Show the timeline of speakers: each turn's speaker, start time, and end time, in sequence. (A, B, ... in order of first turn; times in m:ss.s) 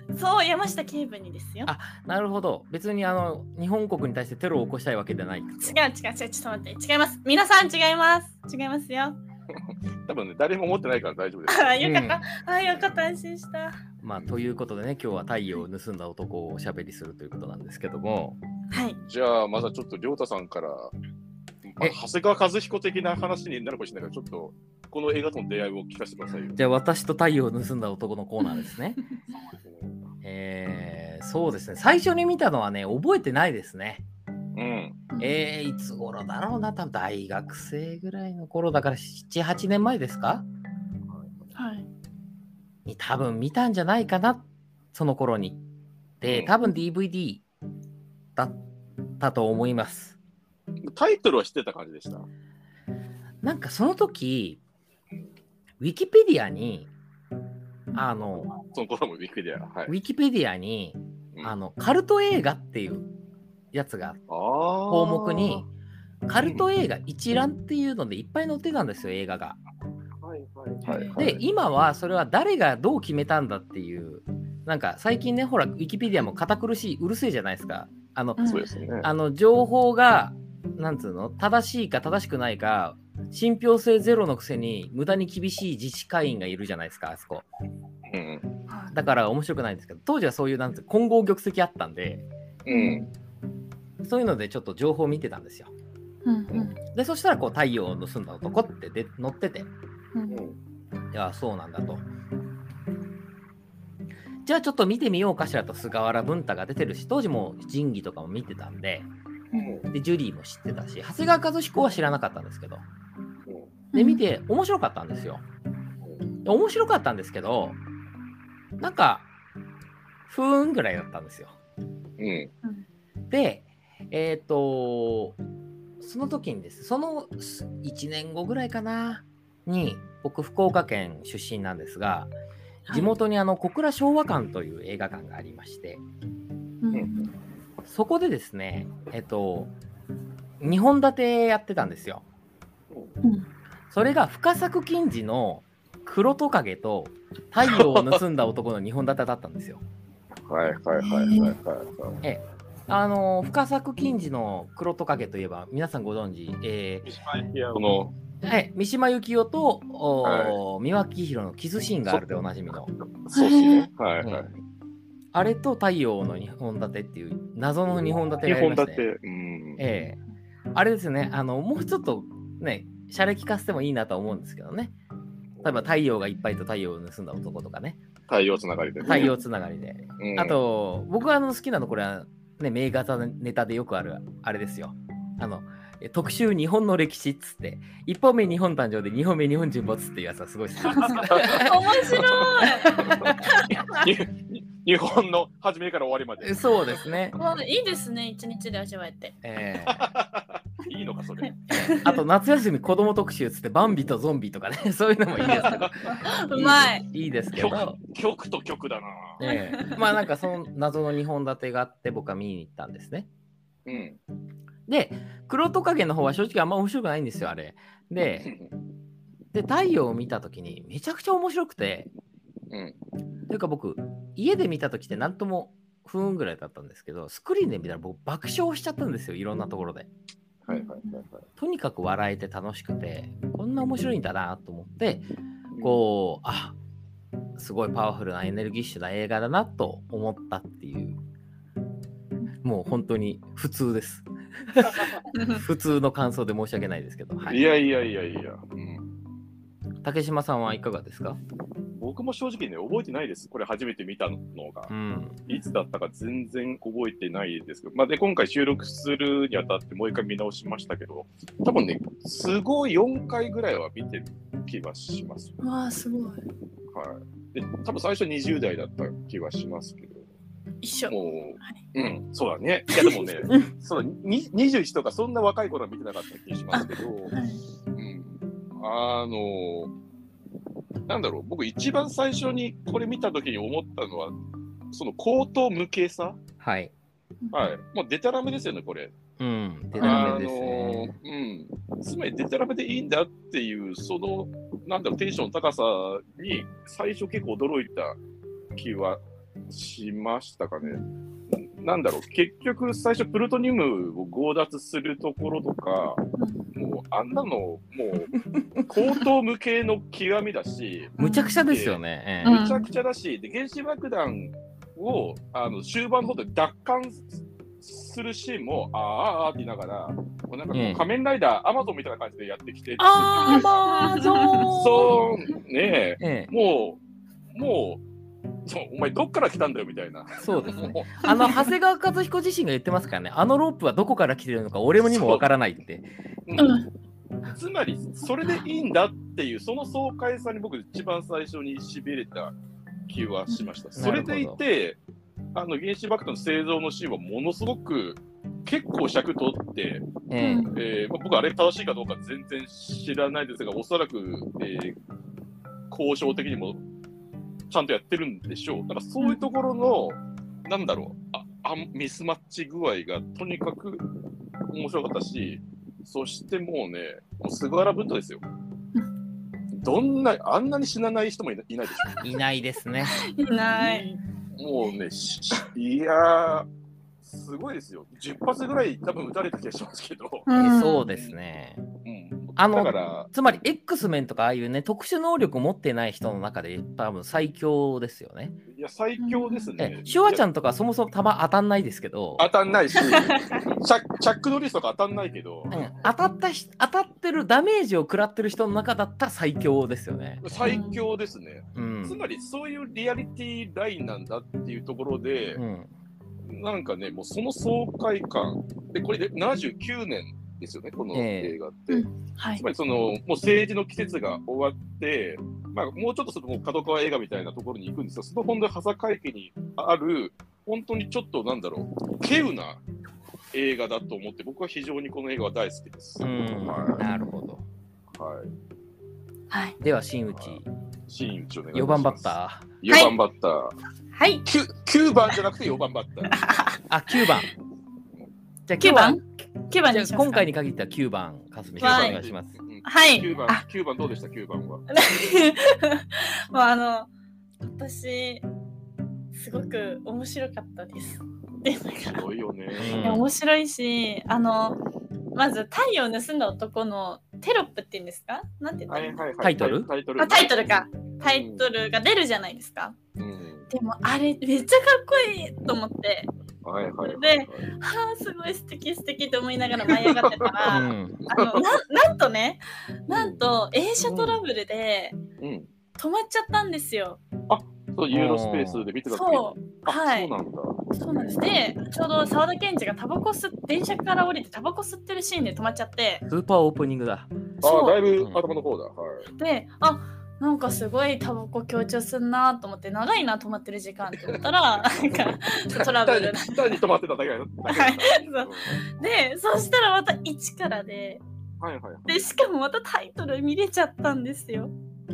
0:00.1-0:01.7 A
0:01.6-0:05.8 B
0:05.6-0:09.2 A
0:09.5-0:11.8 C
0:11.5-0:13.8 A
0:11.8-0:12.2 B
0:14.0-0:18.4 B
0:18.7-0:19.0 A
0:19.0-0:20.9 C
0:21.6-0:26.6 C
0:26.5-0:29.0 B
0:29.6-0:30.0 C
0:30.2-0:34.0 B
0:34.6-0:35.0 C
0:35.2-0:40.4 B
0:41.1-0:41.3 C
0:41.6-0:41.9 A
0:42.8-0:45.6 B
0:46.2-0:47.4 B
0:46.2-0:46.5 C
0:49.2-0:50.2 B
0:50.8-0:52.2 C
0:53.4-0:54.6 B
0:55.8-0:56.9 B
0:57.9-0:58.5 B
0:58.3-0:59.9 C
0:59.9-1:03.1 B
1:03.7-1:04.2 B
1:04.3-1:05.6 C
1:04.9-1:05.6 B
1:06.2-1:09.6 B
1:06.4-1:06.7 C
1:10.2-1:11.4 C
1:10.8-1:11.2 A
1:11.2-1:18.4 B
1:18.4-1:18.6 A
1:18.4-1:19.1 C
1:19.0-1:27.5 B
1:28.1-1:28.5 C
1:28.7-1:28.9 A
1:28.9-1:32.2 B
1:32.6-1:33.1 C
1:32.7-1:33.1 A
1:34.0-1:35.7 B
1:36.2-1:36.8 A
1:36.8-1:39.7 B
1:40.1-1:40.4 A
1:40.3-1:40.6 C
1:41.1-1:42.0 B
1:44.4-1:49.1 B
1:49.5-1:49.8 A
1:49.5-1:49.9 C
1:49.9-1:52.8 B
1:53.9-1:54.2 A
1:53.9-1:55.4 B
1:56.4-1:57.8 B
1:58.8-1:59.3 B
2:00.3-2:01.6 B
2:02.2-2:02.5 C
2:03.3-2:05.4 B
2:06.0-2:12.3 B
2:12.9-2:16.0 B
2:16.8-2:17.3 A
2:16.9-2:17.2 C
2:17.9-2:19.7 B
2:20.6-2:22.2 B
2:23.9-2:29.8 B
2:27.6-2:28.2 C
2:30.5-2:32.2 C
2:31.0-2:31.5 A
2:32.2-2:37.1 B
2:37.0-2:38.1 C
2:38.4-2:42.9 B
2:40.2-2:40.6 C
2:42.1-2:44.5 C
2:43.3-2:43.9 A
2:44.2-2:44.5 B
2:45.3-2:49.0 B
2:47.9-2:49.8 C
2:49.8-2:50.2 B
2:50.7-2:54.9 B
2:55.6-2:55.9 C
2:55.6-2:58.0 B
2:58.3-2:59.3 C
2:59.0-3:12.0 B
3:00.2-3:00.6 C
3:10.9-3:14.1 A
3:11.0-3:17.0 C
3:12.7-3:13.4 B
3:16.4-3:17.4 B
3:17.3-3:19.4 A
3:19.4-3:20.0 B
3:19.8-3:21.6 C
3:21.4-3:22.2 A
3:21.7-3:25.9 B
3:25.4-3:27.0 A
3:25.5-3:26.2 C
3:26.5-3:28.0 B
3:27.5-3:29.4 C
3:29.4-3:33.3 B
3:29.4-3:30.0 A
3:33.8-3:34.2 C
3:34.9-3:38.5 B
3:38.4-3:38.7 C
3:39.5-3:42.1 B
3:42.7-3:43.0 C
3:43.5-3:50.1 B
3:50.6-3:51.4 C
3:50.7-3:51.2 A
3:51.6-3:55.2 B
3:55.7-3:56.0 C
3:55.8-3:56.7 B
3:57.6-4:01.2 B
4:02.6-4:07.6 B
4:05.3-4:05.6 A
4:07.5-4:09.2 C
4:10.0-4:11.4 B
4:11.9-4:14.9 C
4:14.9-4:15.4 B
4:15.5-4:25.6 C
4:25.6-4:26.4 A
4:26.9-4:30.2 C
4:30.8-4:31.8 A
4:31.1-4:37.3 C
4:32.9-4:33.3 A
4:36.7-4:37.6 A
4:37.9-4:39.9 C
4:41.1-4:44.3 C
4:44.9-4:46.4 C
4:46.6-4:46.9 B
4:47.5-4:49.1 C
4:49.4-4:51.1 B
4:50.0-4:58.2 C
4:50.0-4:50.3 A
4:58.7-5:06.2 C
5:06.4-5:06.6 A
5:06.7-5:23.7 C
5:11.2-5:11.6 A
5:11.2-5:12.6 B
5:12.4-5:12.9 A
5:20.7-5:21.0 B
5:23.0-5:25.3 B
5:23.4-5:24.7 A
5:24.7-5:27.0 C
5:26.2-5:26.5 B
5:27.5-5:28.0 C
5:28.6-5:31.3 C
5:30.4-5:36.1 B
5:31.2-5:31.6 A
5:35.0-5:35.5 C
5:36.4-5:36.8 C
5:36.6-5:36.8 A
5:37.4-5:42.5 C
5:43.1-5:45.0 C
5:44.0-5:44.6 B
5:45.5-5:50.1 C
5:50.3-5:50.7 B
5:50.4-5:50.8 A
5:50.7-5:55.0 C
5:55.9-5:56.8 C
5:57.7-6:04.1 C
6:04.7-6:08.4 C
6:09.7-6:12.2 C
6:12.1-6:13.2 B
6:13.1-6:14.1 A
6:13.7-6:16.7 C
6:17.2-6:20.5 C
6:20.5-6:21.0 A
6:20.5-6:21.8 B
6:21.1-6:21.3 C
6:22.0-6:23.3 C
6:22.6-6:28.6 B
6:28.7-6:30.4 C
6:29.2-6:29.7 A
6:29.8-6:32.5 B
6:32.4-6:35.8 C
6:33.1-6:33.6 A
6:35.7-6:40.7 B
6:40.4-6:45.6 C
6:40.6-6:41.0 A
6:41.7-6:42.2 B
6:45.6-6:45.9 B
6:46.5-7:02.8 C
6:51.1-6:51.6 B
6:51.9-6:52.6 A
7:03.5-7:07.0 C
7:06.2-7:07.6 B
7:08.1-7:08.5 C
7:09.5-7:09.8 A
7:09.8-7:10.7 B
7:10.4-7:13.7 C
7:11.7-7:12.7 B
7:12.9-7:13.1 A
7:14.1-7:14.4 A
7:14.4-7:16.4 C
7:16.3-7:16.8 A
7:16.9-7:17.5 B
7:18.7-7:19.2 B
7:18.8-7:20.5 A
7:19.9-7:22.5 B
7:21.8-7:24.8 C
7:21.8-7:22.2 A
7:22.8-7:23.6 A
7:24.9-7:27.1 A
7:27.6-7:28.4 A
7:29.3-7:32.2 A
7:32.0-7:33.1 C
7:32.8-7:33.3 B
7:33.0-7:34.8 A
7:35.3-7:39.2 A
7:38.9-7:41.7 C
7:39.4-7:39.9 B
7:40.2-7:43.0 A
7:43.2-7:43.7 C
7:43.7-7:46.3 A
7:46.6-7:47.7 C
7:47.0-7:55.2 A
7:49.9-7:51.8 C
7:50.7-7:51.2 B
7:53.1-7:53.4 C
7:54.0-7:54.4 C
7:55.4-7:55.7 C
7:56.0-7:57.2 A
7:57.5-8:02.3 C
7:58.1-7:58.8 B
7:59.1-8:00.3 A
8:00.9-8:06.2 A
8:06.3-8:07.3 B
8:07.6-8:09.3 C
8:07.6-8:08.0 A
8:09.4-8:16.8 A
8:14.2-8:18.8 C
8:17.7-8:21.2 A
8:21.6-8:22.2 C
8:22.1-8:24.7 A